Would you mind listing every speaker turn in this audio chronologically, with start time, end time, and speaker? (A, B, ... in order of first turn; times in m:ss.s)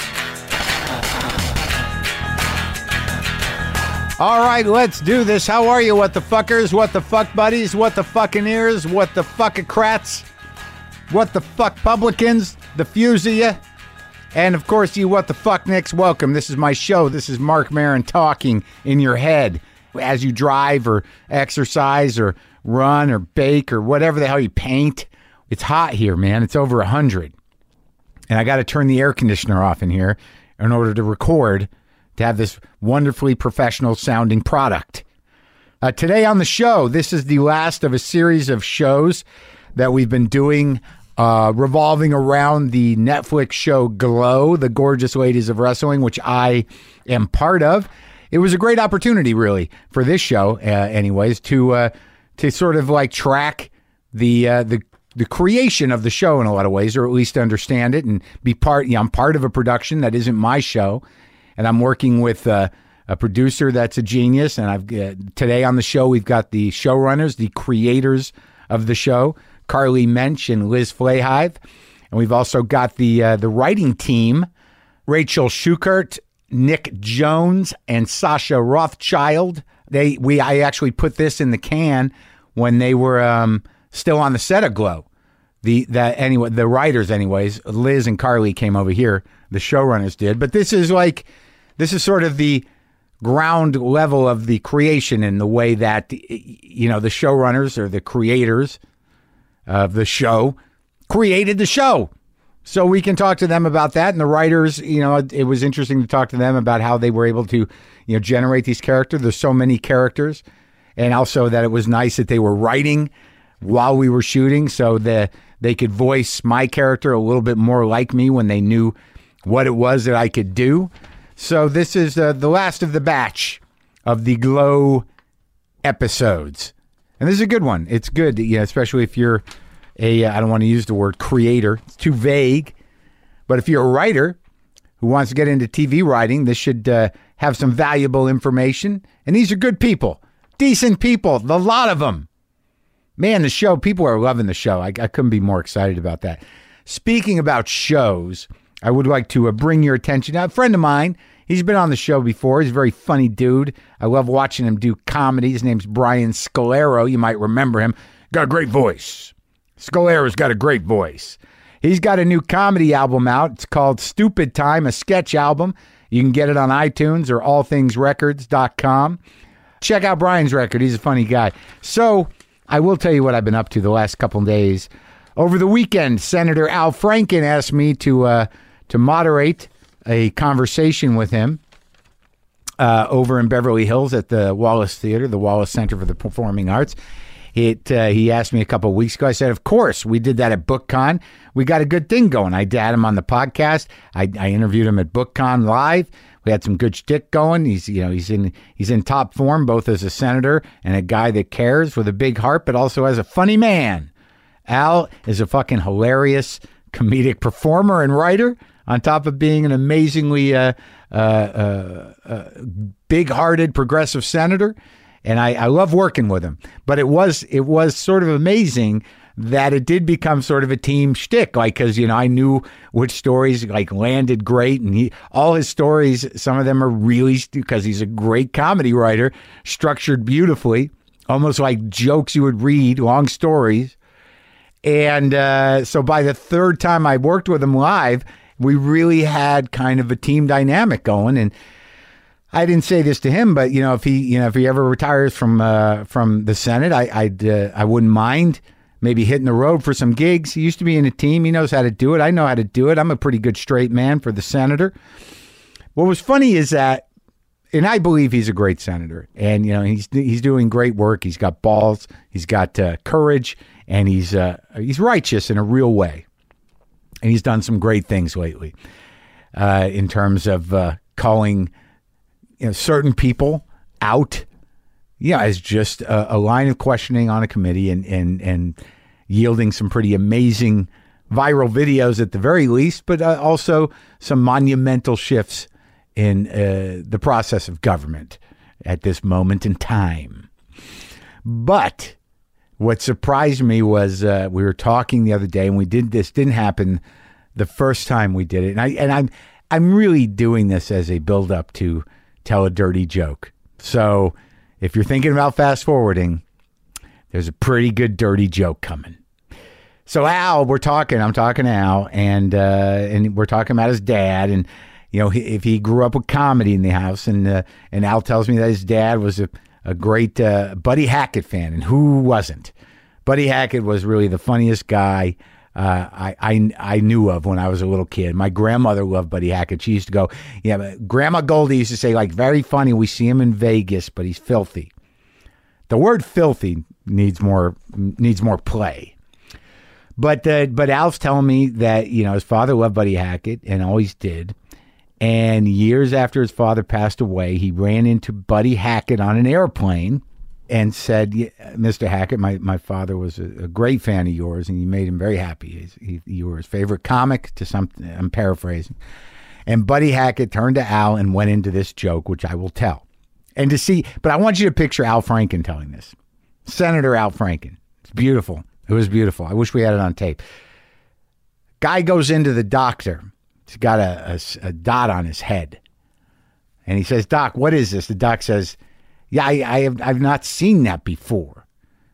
0:04.2-0:10.3 A
0:11.1-0:13.6 A
0:14.3-0:27.3 A
0:28.3-0:35.0 A
0:35.8-0:39.2 A
0:39.8-1:01.0 A
1:01.6-1:11.6 A
1:12.1-1:14.5 A
1:15.1-1:25.1 A
1:25.6-1:32.7 A
1:33.2-1:38.8 A
1:39.7-1:40.6 A
1:41.1-1:42.1 A
1:42.7-1:50.4 A
1:51.0-2:05.1 A
2:05.8-2:09.4 A
2:10.0-2:12.7 A
2:13.5-2:14.4 A
2:15.0-2:22.3 A
2:23.2-2:49.2 A
2:49.8-3:01.6 A
3:02.8-3:07.0 A
3:07.6-3:24.1 A
3:24.7-3:54.0 A
3:54.8-4:01.5 A
4:02.5-4:15.0 A
4:16.0-4:17.1 A
4:17.7-4:26.2 A
4:27.2-4:28.7 A
4:29.6-4:31.7 A
4:32.6-4:34.5 A
4:35.2-4:38.8 A
4:39.3-4:50.5 A
4:51.4-4:52.2 A
4:52.8-4:57.0 A
4:57.6-5:06.4 A
5:07.3-5:09.2 A
5:10.1-5:22.7 A
5:23.2-5:34.9 A
5:35.9-5:39.1 A
5:40.2-5:44.6 A
5:45.2-5:59.0 A
5:59.7-6:03.0 A
6:03.6-6:06.1 A
6:06.7-6:10.4 A
6:11.8-6:15.8 A
6:16.9-6:18.8 A
6:19.3-6:21.6 A